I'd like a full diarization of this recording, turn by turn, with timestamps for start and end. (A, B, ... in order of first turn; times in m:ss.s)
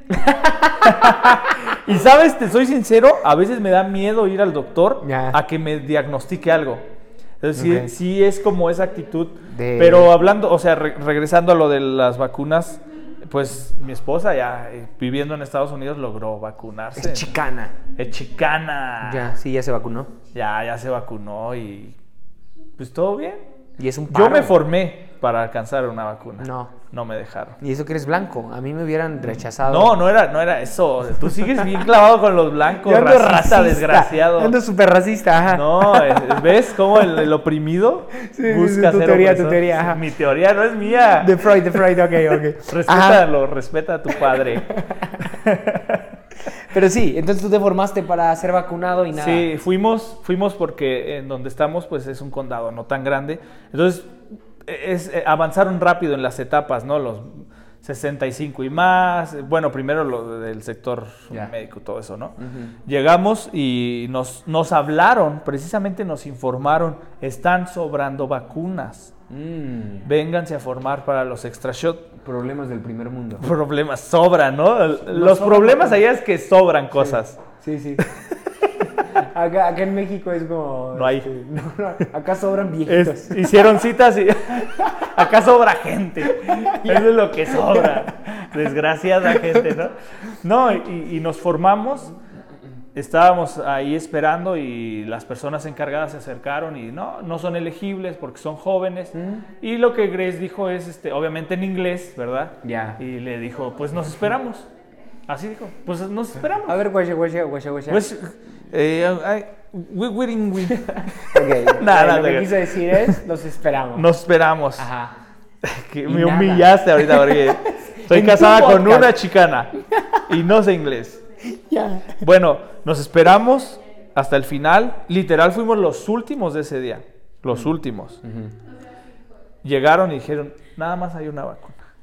0:00.1-0:01.2 A
0:00.8-0:06.8 B
0:05.0-0:05.4 A
0:07.4-0:17.4 B
0:07.5-0:07.9 A
0:09.4-0:10.1 A
0:17.0-0:17.8 A
0:17.9-0:19.3 B
0:19.0-0:20.1 A
0:20.3-0:22.0 B
0:22.8-0:23.4 B
0:23.8-0:24.6 A
0:24.1-0:27.6 B
0:26.4-0:26.8 A
0:27.6-0:30.0 A
0:29.3-0:34.6 B
0:32.8-0:36.5 A
0:35.4-0:41.8 B
0:38.2-0:40.0 A
0:41.2-0:43.3 A
0:42.6-0:46.1 B
0:44.7-0:45.2 A
0:46.6-0:49.5 A
0:49.1-1:09.1 B
1:02.4-1:02.8 A
1:09.3-1:10.1 A
1:10.0-1:12.1 B
1:12.2-1:13.5 A
1:13.4-1:17.4 B
1:15.0-1:16.0 A
1:17.0-1:18.1 A
1:18.0-1:18.3 B
1:18.7-1:23.6 A
1:20.9-1:21.3 B
1:22.8-1:32.1 B
1:26.4-1:28.0 A
1:32.9-1:44.7 B
1:39.1-1:39.5 A
1:42.6-1:43.0 A
1:45.3-1:46.8 B
1:46.6-1:48.1 A
1:47.9-1:53.2 B
1:51.1-1:54.1 A
1:53.9-1:54.9 B
1:54.8-1:55.2 A
1:55.6-1:59.7 B
1:56.0-1:59.1 A
2:00.0-2:00.2 A
2:00.2-2:01.2 B
2:01.5-2:02.2 A
2:02.2-2:08.2 B
2:08.2-2:08.5 A
2:09.6-2:11.8 B